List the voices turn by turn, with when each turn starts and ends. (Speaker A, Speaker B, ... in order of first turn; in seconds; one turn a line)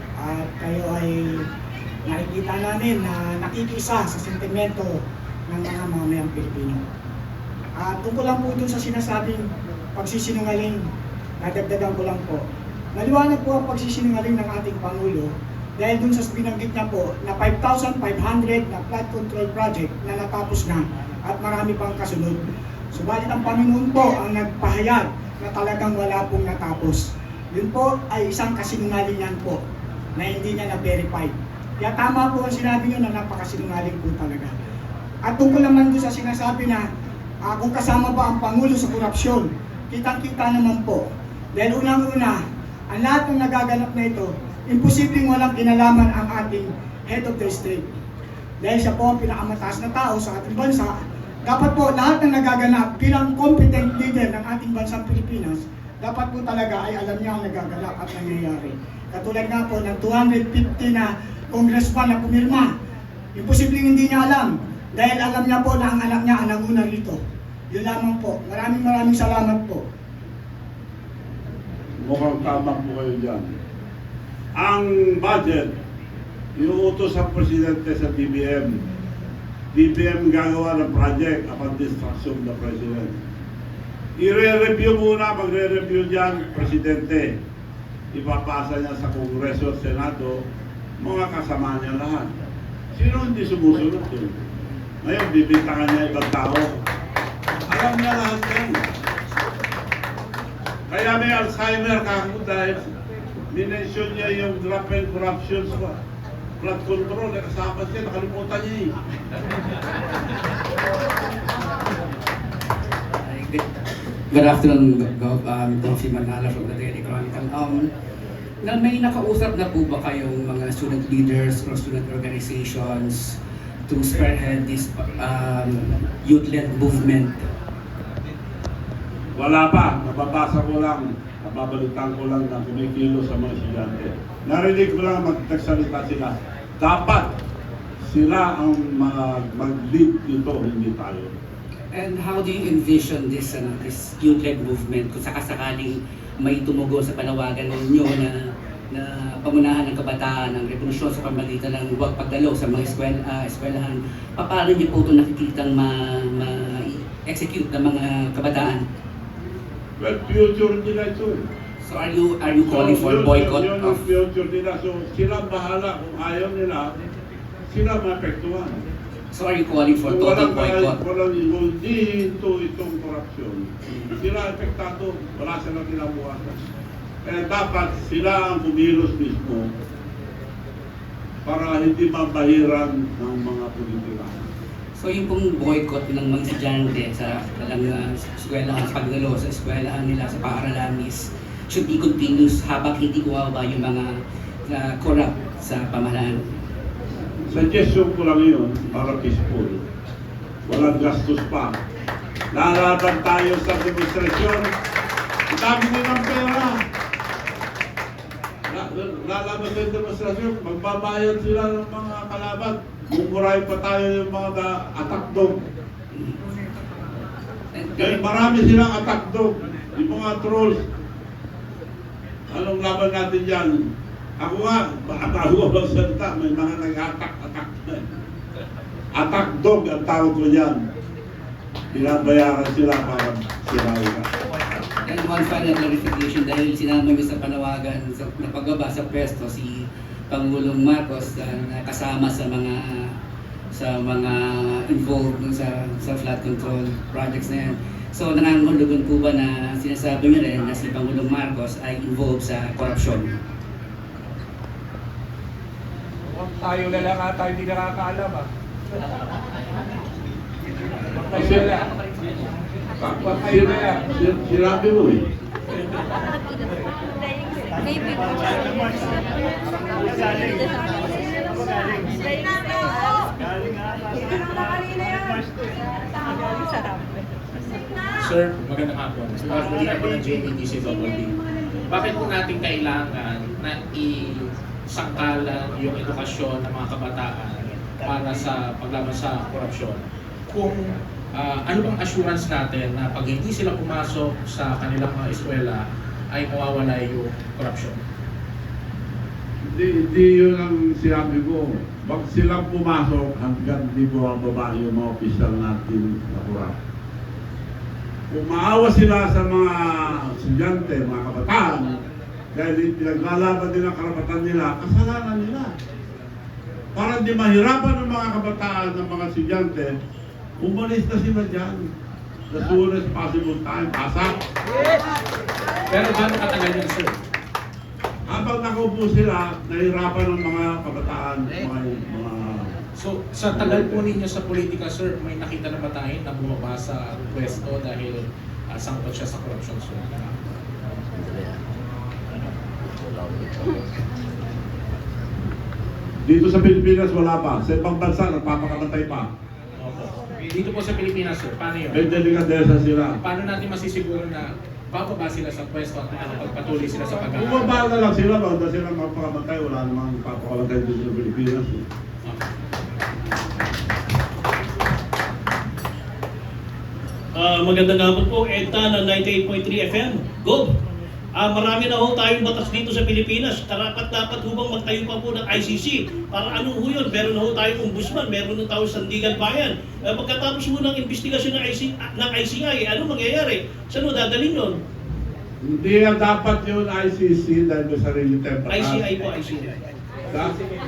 Speaker A: 0.2-1.4
Speaker A: 2.0-6.8
Speaker A: 7.8-9.4
Speaker A: 9.9-10.8
Speaker A: 11.4-12.4
Speaker A: 12.9-22.4
Speaker A: 22.9-29.6
Speaker A: 30.1-34.5
Speaker A: 35.2-36.8
Speaker A: 37.4-41.0
Speaker A: 41.5-42.4
Speaker A: 42.9-47.9
Speaker A: 48.6-50.9
Speaker A: 51.5-62.7
Speaker A: 63.4-69.8
Speaker B: 72.0-73.5
Speaker B: 74.6-75.7
Speaker B: 76.6-78.8
Speaker B: 79.7-83.2
Speaker B: 84.2-87.3
Speaker B: 88.1-90.4
Speaker B: 91.0-92.3
Speaker B: 92.9-94.3
Speaker B: 95.0-96.7
Speaker B: 97.7-98.8
Speaker B: 100.9-102.8
Speaker B: 103.5-106.0
Speaker B: 106.6-108.9
Speaker C: 113.2-113.6
Speaker C: 114.3-117.9
Speaker C: 118.6-123.3
Speaker C: 123.9-127.4
Speaker B: 129.3-137.3
Speaker B: 138.0-141.3
Speaker C: 141.9-148.4
Speaker C: 148.9-158.8
Speaker B: 160.0-161.4
Speaker C: 161.8-164.0
Speaker B: 162.7-166.9
Speaker B: 167.7-168.8
Speaker C: 169.3-171.0
Speaker B: 170.0-176.6
Speaker B: 177.2-179.7
Speaker B: 181.4-184.4
Speaker C: 184.9-194.1
Speaker C: 194.7-196.4
Speaker B: 197.5-199.8
Speaker B: 200.7-201.8
Speaker B: 202.5-204.7
Speaker B: 205.5-206.8
Speaker B: 208.7-215.6
Speaker C: 217.7-218.4
Speaker B: 218.0-220.8
Speaker B: 222.5-223.7
Speaker B: 224.4-228.1
Speaker B: 229.1-230.8
Speaker B: 231.9-234.3
Speaker C: 235.1-243.1
Speaker C: 243.7-253.3
Speaker D: 256.3-258.5
Speaker D: 261.2-261.9
Speaker B: 261.3-261.8
Speaker B: 263.0-265.2
Speaker D: 263.2-264.0
Speaker E: 278.2-281.3
Speaker E: 281.9-298.0
Speaker B: 299.7-306.8
Speaker B: 308.3-312.0
Speaker B: 312.5-315.7
Speaker B: 316.9-319.9
Speaker B: 320.6-321.9
Speaker B: 322.5-324.4
Speaker E: 325.9-327.2
Speaker B: 328.3-332.7
Speaker E: 332.9-340.4
Speaker B: 333.5-334.0
Speaker B: 346.2-349.3
Speaker E: 349.8-352.0
Speaker B: 351.9-353.2
Speaker E: 353.2-357.6
Speaker B: 357.3-361.8
Speaker F: 367.4-370.7
Speaker F: 371.4-384.7
Speaker B: 385.6-389.0
Speaker F: 388.7-389.7
Speaker B: 390.3-390.6